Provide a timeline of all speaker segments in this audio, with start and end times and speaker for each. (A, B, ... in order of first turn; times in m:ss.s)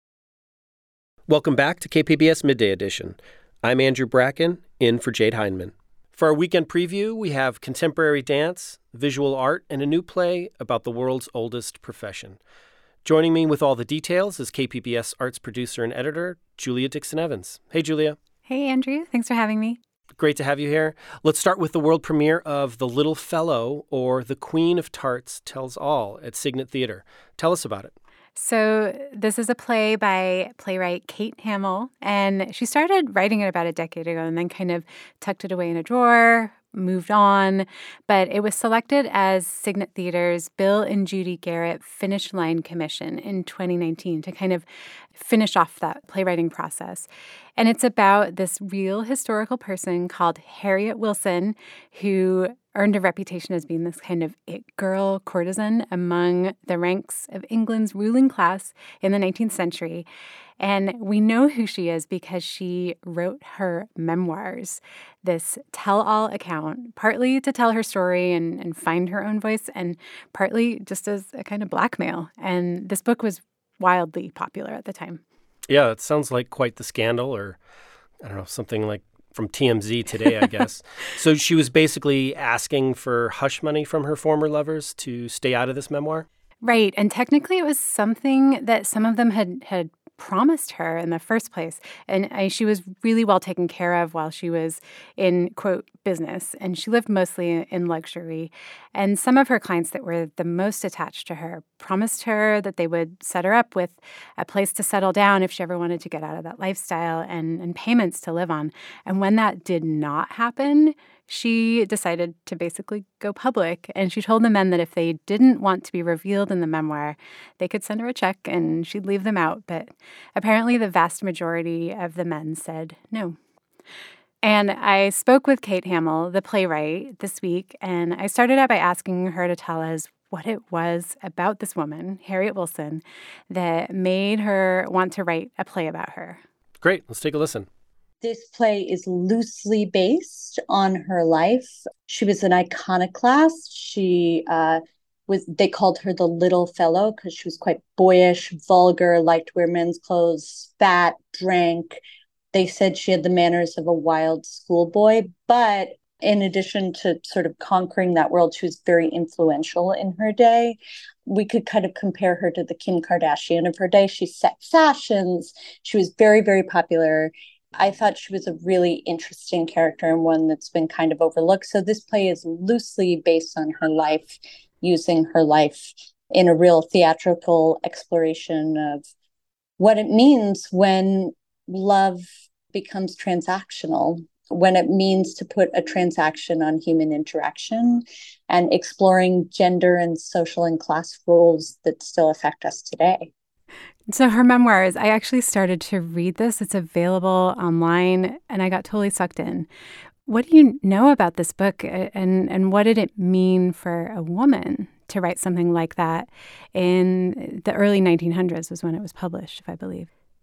0:01.3-0:12.4 A
0:13.0-0:18.2 A
0:18.5-0:19.8 B
0:20.2-0:28.0 A
0:28.4-1:00.1 B
1:00.6-1:15.2 B
1:15.7-1:17.6 A
1:18.2-1:26.3 A
1:26.6-2:03.4 B
2:04.4-2:16.4 B
2:16.8-2:17.7 A
2:18.2-2:32.0 C
2:32.5-2:59.1 C
2:59.8-3:13.3 C
3:14.1-3:19.7 B
3:20.3-3:30.1 B